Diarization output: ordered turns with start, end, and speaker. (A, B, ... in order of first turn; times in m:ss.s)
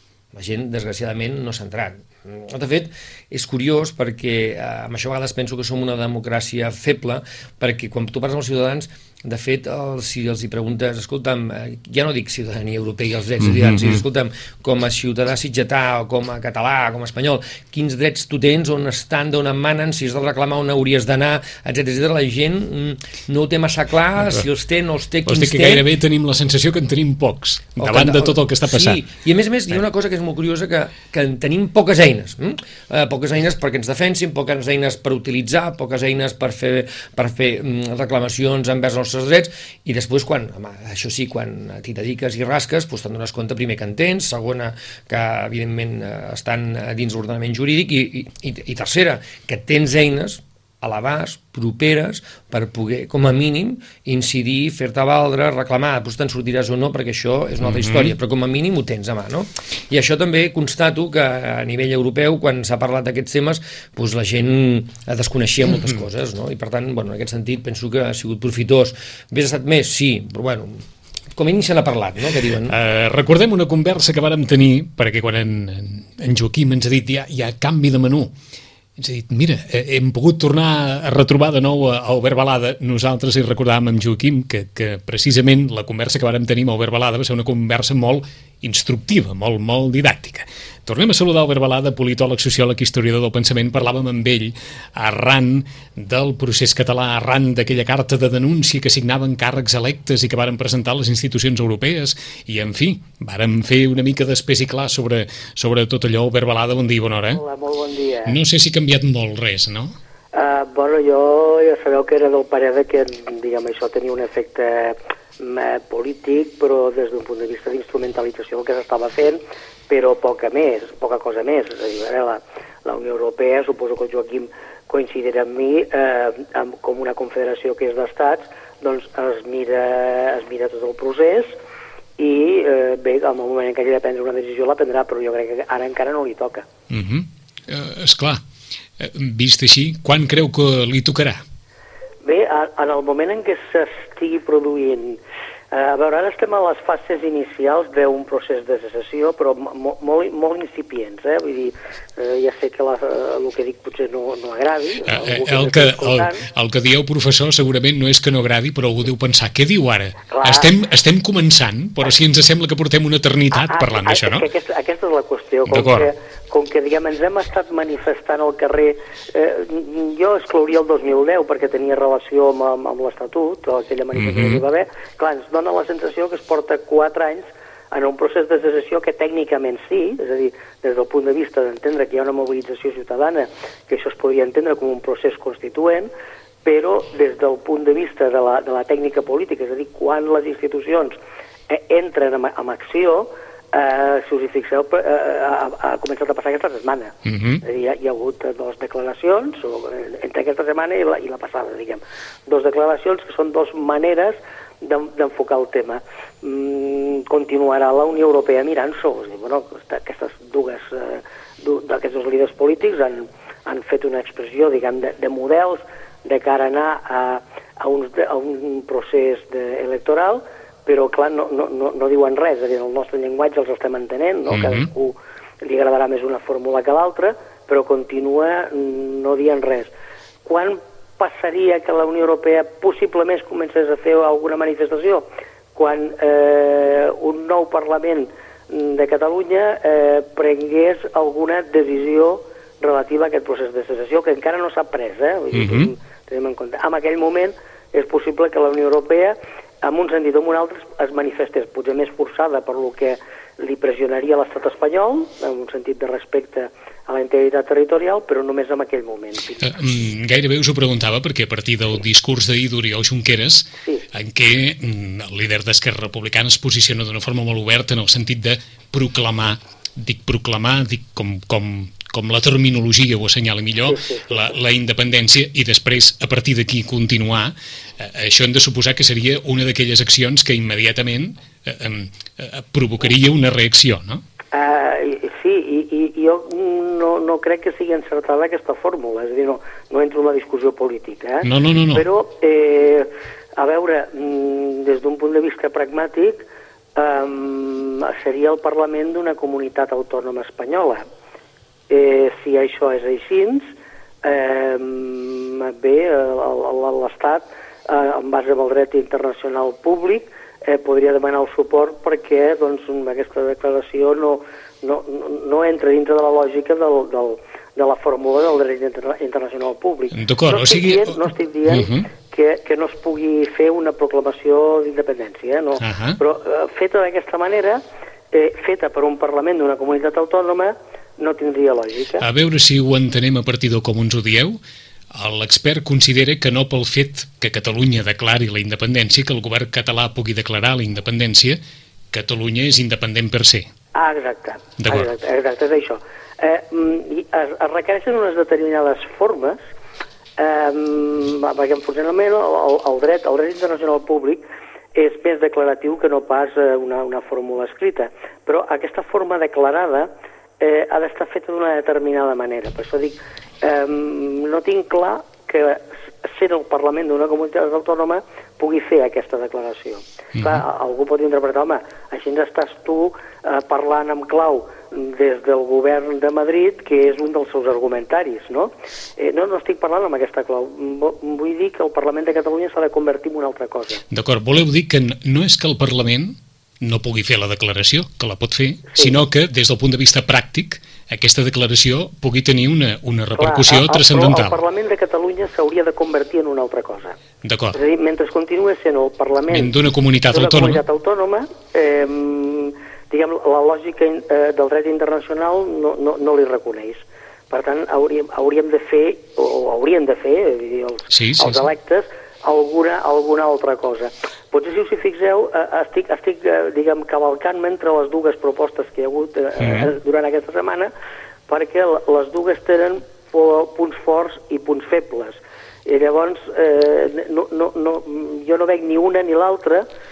0:00.3-0:25.9 A
0:13.4-0:14.0 B
0:25.3-0:29.0 B
0:27.8-1:12.8 A
0:57.6-0:58.1 B
1:12.7-1:18.3 B
1:19.0-1:47.4 B
1:47.3-1:48.4 C
1:48.3-1:49.9 B
1:50.3-2:11.6 C
2:12.2-2:16.7 C
2:16.9-2:18.4 B
2:19.0-2:21.4 B
2:22.2-2:25.2 C
2:25.7-2:36.4 C
2:35.1-2:44.4 B
2:40.3-2:40.7 C
2:43.5-3:06.1 C
2:45.7-2:46.1 B
2:54.1-2:54.6 B
3:06.6-3:11.2 C
3:11.7-3:49.9 C
3:17.2-3:17.6 B
3:44.5-3:44.9 B
3:50.4-4:19.8 C
4:05.5-4:05.9 B
4:19.6-4:44.2 B
4:33.9-4:34.4 C
4:44.5-5:01.0 C
4:51.4-4:52.1 B
5:01.9-5:03.7 C
5:04.2-5:32.2 C
5:20.1-5:22.1 B
5:25.8-5:26.2 B
5:32.2-5:34.6 B
5:35.1-5:41.6 B
5:42.1-5:43.7 B
5:43.9-5:49.6 C
5:44.8-5:45.1 B
5:50.4-5:54.4 C
5:55.0-6:24.0 C
6:10.4-6:10.6 B
6:24.1-6:34.6 B
6:33.4-6:37.2 C
6:37.4-6:37.8 B
6:37.7-6:39.7 C
6:39.5-6:40.8 B
6:40.3-7:00.9 C
6:51.1-6:51.6 B
6:59.6-6:59.9 B
7:01.5-7:09.9 C